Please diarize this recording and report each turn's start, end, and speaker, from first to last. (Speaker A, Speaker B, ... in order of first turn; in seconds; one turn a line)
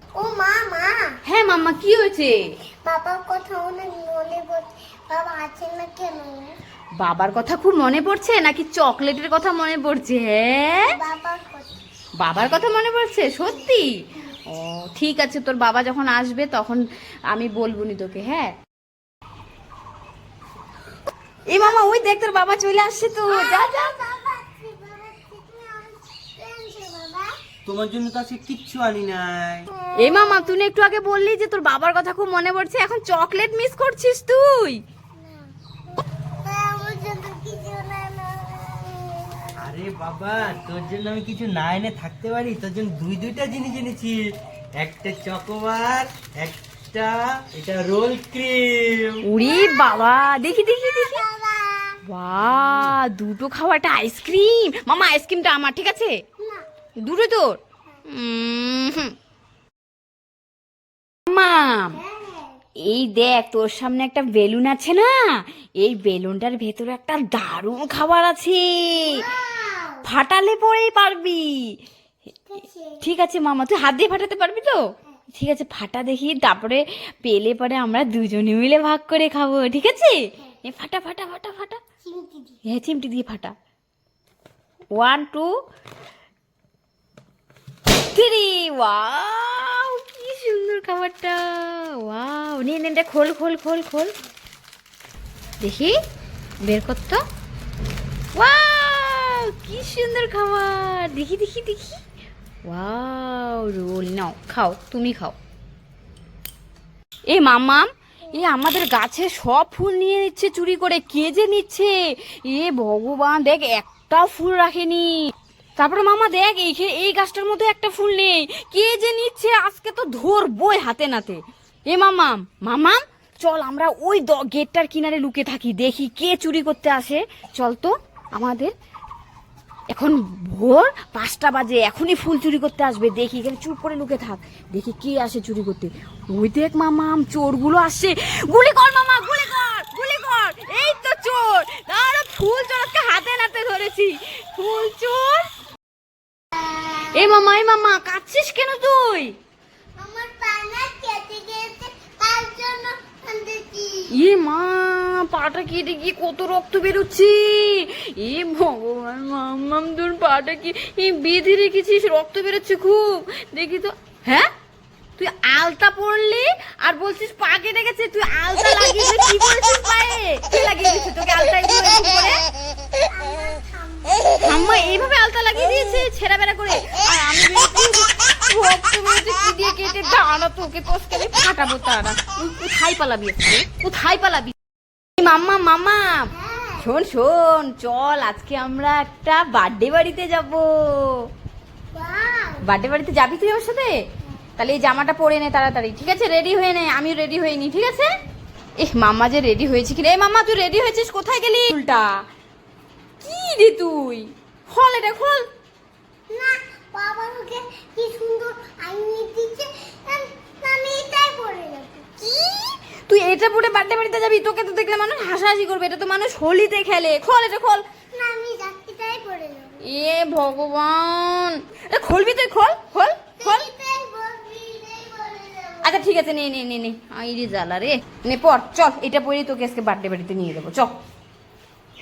Speaker A: 0.2-1.0
Speaker B: 1.2-2.4
Speaker A: 2.8-6.5
Speaker B: 7.0-10.9
Speaker A: 10.8-11.8
Speaker B: 12.2-13.9
Speaker B: 14.5-18.5
Speaker B: 21.5-24.0
Speaker A: 21.5-22.3
Speaker A: 23.3-27.3
Speaker C: 27.6-29.6
Speaker A: 29.8-30.5
Speaker B: 30.0-34.8
Speaker A: 36.5-39.5
Speaker C: 39.6-44.2
Speaker C: 44.8-49.2
Speaker B: 49.2-51.2
Speaker A: 49.4-52.0
Speaker B: 52.0-56.2
Speaker B: 57.0-59.1
Speaker B: 61.3-62.0
Speaker A: 61.9-62.5
Speaker B: 62.8-69.3
Speaker A: 69.1-70.0
Speaker B: 70.0-71.8
Speaker A: 72.5-73.0
Speaker B: 73.0-74.8
Speaker B: 75.3-81.8
Speaker A: 82.0-82.6
Speaker B: 82.6-83.5
Speaker B: 84.9-85.5
Speaker B: 88.1-94.1
Speaker B: 95.6-96.0
Speaker B: 96.6-97.2
Speaker B: 98.3-102.0
Speaker B: 102.7-105.4
Speaker B: 107.3-128.7
Speaker B: 129.9-145.4
Speaker A: 146.7-147.2
Speaker B: 147.0-149.3
Speaker A: 150.0-154.1
Speaker B: 154.1-164.5
Speaker B: 165.2-172.4
Speaker A: 172.9-175.0
Speaker B: 174.4-184.5
Speaker B: 185.2-191.2
Speaker A: 186.3-186.9
Speaker A: 191.9-192.6
Speaker B: 192.6-193.9
Speaker B: 194.6-198.1
Speaker B: 198.8-202.2
Speaker B: 203.2-205.4
Speaker A: 206.3-212.0
Speaker B: 212.2-217.8
Speaker A: 218.1-219.8
Speaker B: 219.9-223.7
Speaker A: 223.4-226.0
Speaker B: 225.8-230.9